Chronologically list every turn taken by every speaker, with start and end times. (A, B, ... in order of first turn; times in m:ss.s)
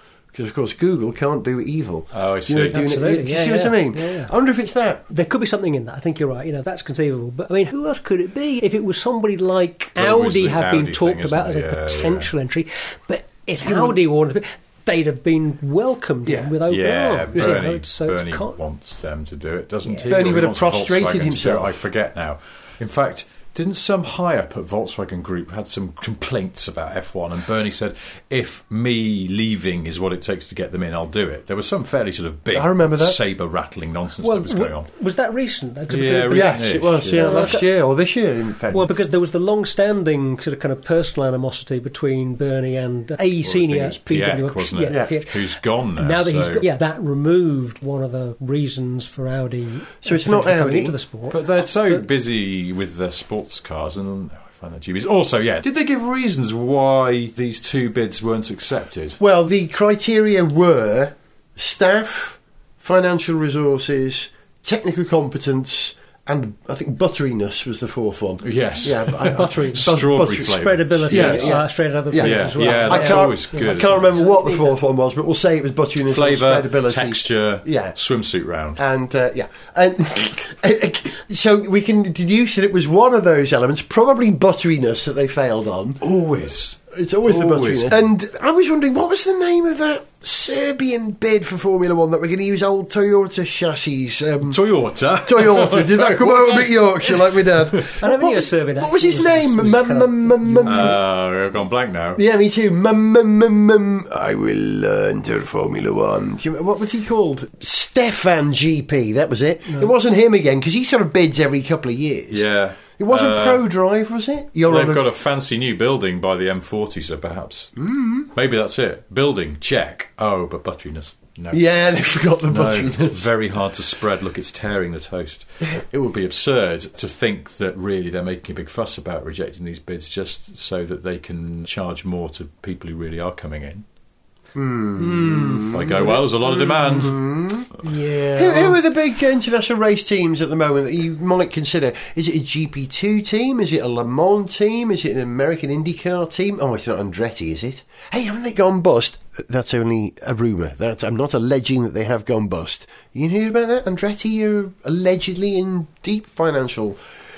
0:00.3-0:05.0 A
0:02.1-0:02.9 B
0:02.7-0:04.3 C
0:05.1-0:18.5 C
0:10.0-0:12.3 B
0:13.7-0:13.9 A
0:16.2-0:16.6 A
0:16.7-0:34.9 B
0:19.8-0:20.1 C
0:20.1-0:21.8 A
0:32.5-0:33.2 A
0:34.2-0:37.6 C
0:35.9-0:37.5 B
0:36.3-0:38.9 A
0:38.7-0:52.0 C
0:43.4-0:46.6 B
0:50.0-0:51.0 A
0:51.3-0:59.2 B
0:59.2-1:18.0 A
1:08.4-1:11.6 B
1:09.2-1:14.8 C
1:12.1-1:14.1 B
1:16.1-1:18.8 B
1:18.8-1:26.0 A
1:26.0-1:28.0 B
1:26.9-1:34.6 A
1:34.5-1:37.9 B
1:35.2-1:41.0 A
1:37.8-1:41.0 C
1:40.6-1:42.2 B
1:42.2-1:52.4 A
1:52.3-1:53.6 B
1:53.0-1:55.1 A
1:54.7-2:01.6 B
1:57.8-1:58.3 A
2:01.5-2:03.3 A
2:02.4-2:13.8 B
2:14.6-2:17.7 A
2:15.0-2:16.9 C
2:15.5-2:17.2 B
2:17.8-2:18.8 C
2:18.4-2:37.0 A